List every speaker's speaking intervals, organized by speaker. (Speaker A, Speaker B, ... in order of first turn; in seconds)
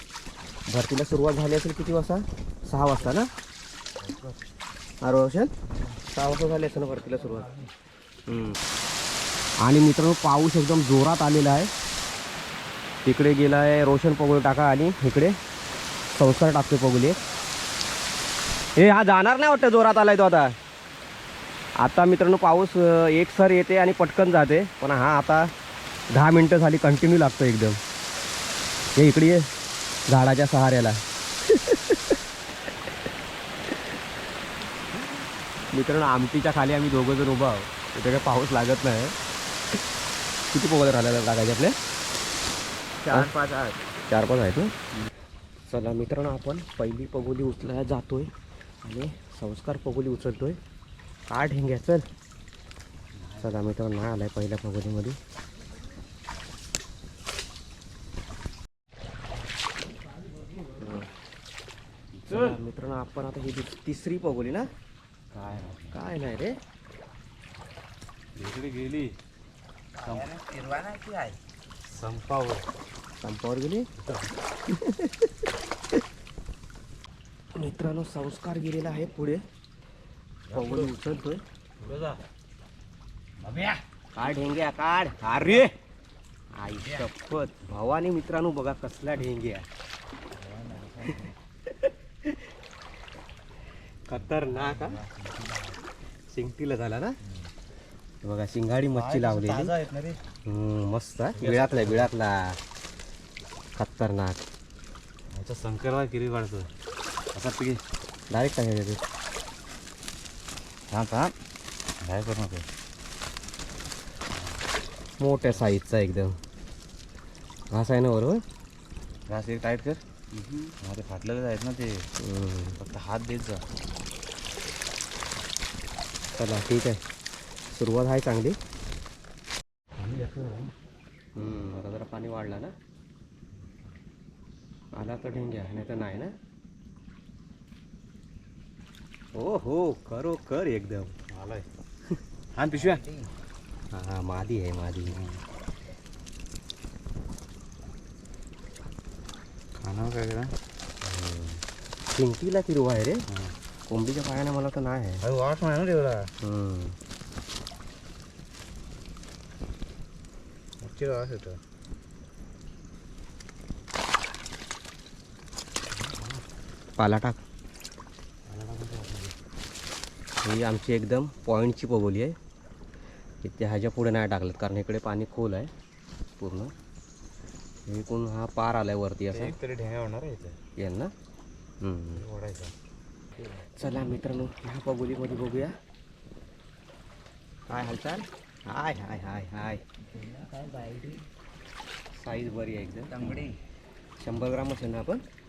Speaker A: 0.7-3.3, 5.0-5.5, 6.1-7.5, 8.3-8.6, 9.6-11.7, 13.0-15.3, 16.1-17.2, 18.8-20.5, 21.8-25.5, 26.1-27.8, 28.9-29.5, 30.1-32.2, 35.7-39.1, 40.5-41.8, 43.1-43.3, 44.1-44.7, 45.7-48.3, 48.8-50.6, 51.3-52.0, 53.4-55.2, 60.8-61.1, 62.2-64.7, 65.9-66.6, 73.2-73.9, 74.7-75.3, 77.5-79.4, 80.5-81.4, 84.2-85.7, 86.5-89.7, 91.7-92.4, 94.1-95.0, 96.3-97.2, 98.2-99.7, 100.4-102.6, 103.8-104.4, 108.3-109.0, 115.2-116.4, 117.7-118.4, 122.2-122.8, 126.3-127.0, 127.7-128.6, 131.3-132.7, 134.9-136.3, 139.3-141.2, 143.9-145.2, 151.0-151.6, 152.1-153.2, 153.9-155.2, 156.4-156.9, 167.0-167.4, 170.4-172.3, 173.4-175.7, 176.4-176.7, 177.9-179.5, 180.8-181.1, 181.8-182.2, 183.6-185.8, 187.7-189.8, 192.1-193.4, 194.2-195.2
Speaker B: 4.0-4.4, 43.0-43.7, 53.1-53.6, 62.3-62.5, 65.3-66.0, 68.3-69.1, 70.0-70.4, 71.8-72.7, 74.0-74.3, 80.5-81.0, 81.8-82.2, 83.4-83.8, 90.3-91.3, 94.2-95.8, 98.9-100.2, 101.3-102.1, 105.3-106.7, 107.3-107.8, 110.9-111.3, 112.0-112.7, 114.3-114.6, 119.3-120.0, 120.7-122.1, 122.8-123.6, 130.0-130.7, 141.3-141.7, 142.5-143.2, 145.1-145.4, 149.8-150.5, 153.3-153.5, 155.2-156.3, 160.8-161.6, 166.0-166.4, 168.5-169.3, 179.3-180.6, 182.2-182.7, 193.1-193.5
Speaker C: 70.0-71.4, 190.2-191.2